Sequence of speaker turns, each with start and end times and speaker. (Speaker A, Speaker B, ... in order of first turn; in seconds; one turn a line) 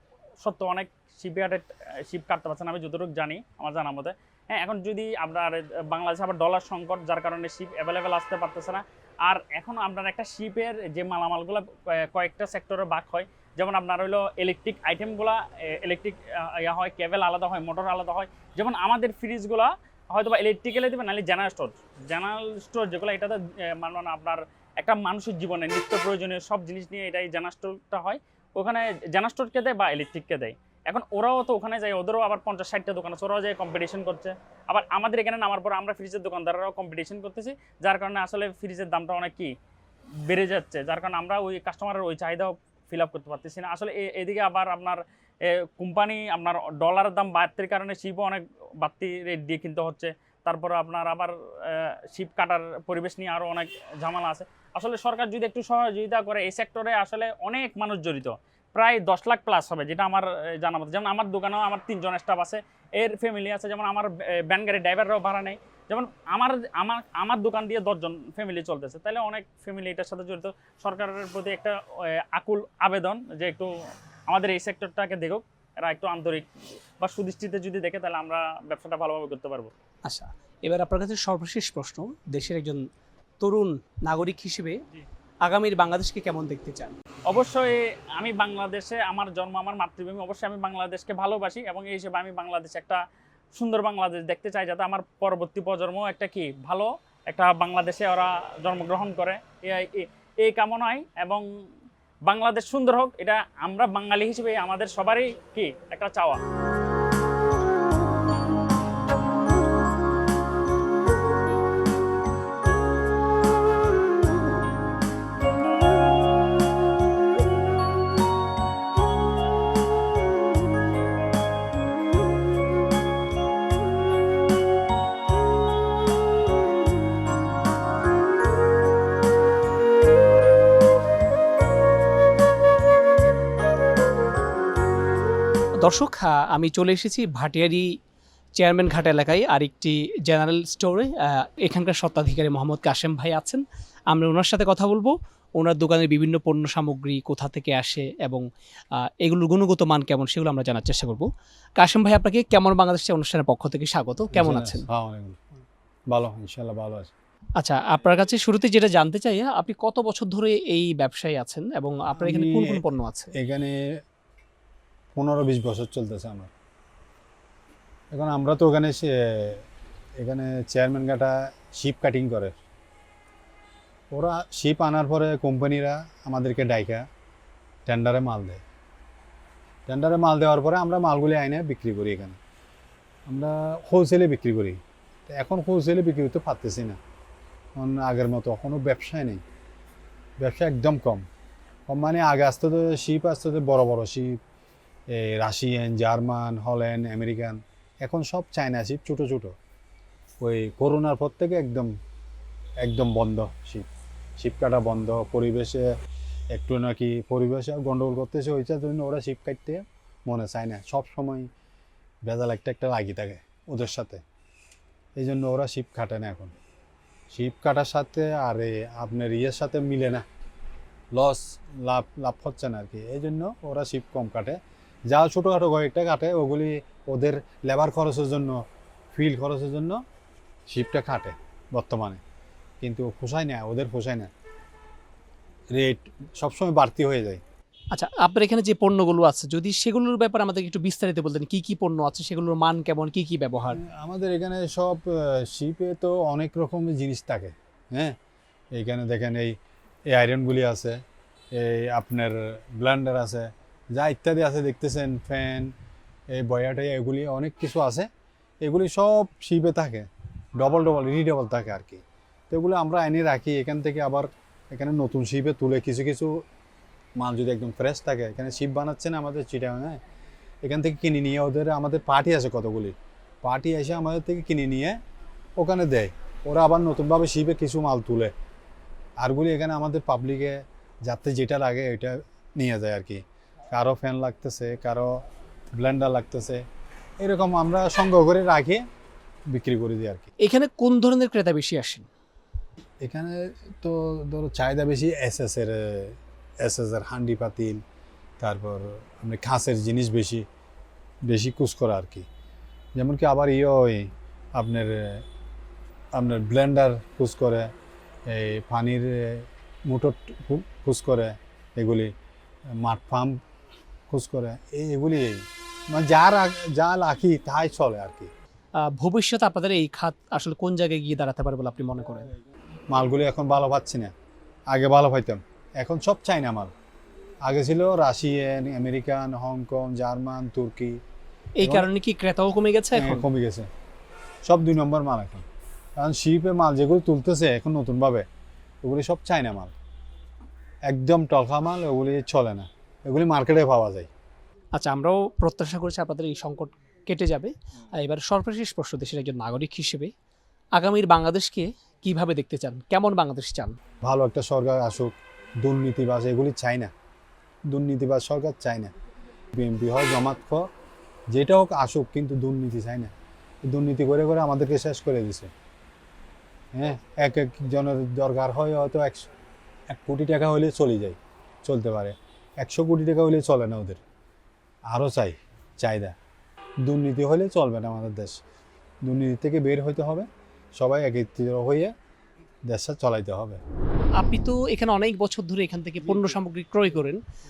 Speaker A: 0.4-39.5
Speaker A: 40.3-73.7
Speaker A: 74.3-76.5
Speaker A: 77.0-79.7
Speaker B: 80.1-82.8
Speaker B: 83.4-84.8
Speaker B: 85.5-87.0
Speaker A: 87.3-93.0
Speaker A: 93.6-101.5
Speaker A: 102.3-106.4
Speaker B: 135.8-137.9
Speaker B: 138.6-148.4
Speaker B: 149.0-154.9
Speaker C: 154.3-155.4
Speaker C: 156.1-157.1
Speaker B: 157.6-163.3
Speaker C: 162.2-162.8
Speaker C: 163.3-164.0
Speaker C: 165.2-166.5
Speaker C: 168.1-169.6
Speaker C: 170.2-172.6
Speaker C: 174.1-177.1
Speaker C: 177.9-178.6
Speaker C: 179.9-182.4
Speaker C: 183.3-184.8
Speaker C: 185.3-187.0
Speaker C: 187.8-189.4
Speaker C: 190.4-191.2
Speaker C: 191.9-194.4
Speaker C: 195.1-199.5
Speaker C: 200.4-201.9
Speaker C: 202.8-203.9
Speaker C: 204.4-205.9
Speaker C: 206.5-211.5
Speaker C: 212.3-214.2
Speaker C: 215.2-216.6
Speaker C: 217.3-220.2
Speaker C: 221.2-224.6
Speaker C: 225.1-228.6
Speaker C: 229.1-230.0
Speaker C: 230.7-232.2
Speaker C: 232.8-234.3
Speaker C: 235.7-237.4
Speaker B: 237.9-243.8
Speaker C: 243.8-248.2
Speaker C: 248.8-249.6
Speaker C: 250.1-251.0
Speaker C: 251.5-255.7
Speaker C: 256.3-258.1
Speaker C: 258.6-266.4
Speaker C: 267.2-270.0
Speaker C: 270.6-275.0
Speaker C: 275.6-278.3
Speaker C: 279.2-285.2
Speaker C: 285.7-286.6
Speaker C: 287.2-288.9
Speaker C: 289.5-290.3
Speaker B: 290.4-292.1
Speaker C: 293.0-297.8
Speaker C: 298.4-300.4
Speaker C: 301.3-302.3
Speaker C: 303.0-305.2
Speaker C: 306.1-307.7
Speaker C: 308.3-312.1
Speaker C: 312.7-313.4
Speaker C: 314.1-318.3
Speaker B: 318.8-322.3
Speaker C: 322.9-324.1
Speaker C: 324.7-326.7
Speaker C: 327.4-331.0
Speaker B: 331.6-333.2
Speaker C: 331.6-331.9
Speaker C: 332.9-333.7
Speaker C: 334.4-335.4
Speaker C: 336.0-338.3
Speaker C: 338.8-339.7
Speaker C: 340.9-344.1
Speaker B: 344.8-350.1
Speaker B: 350.8-353.8
Speaker C: 354.0-356.9
Speaker C: 357.7-358.9
Speaker C: 359.5-360.7
Speaker C: 361.3-363.1
Speaker C: 363.7-365.5
Speaker C: 366.7-369.3
Speaker C: 369.9-374.0
Speaker C: 374.9-376.1
Speaker C: 376.9-378.4
Speaker C: 379.0-381.9
Speaker C: 382.7-383.6
Speaker B: 384.2-387.2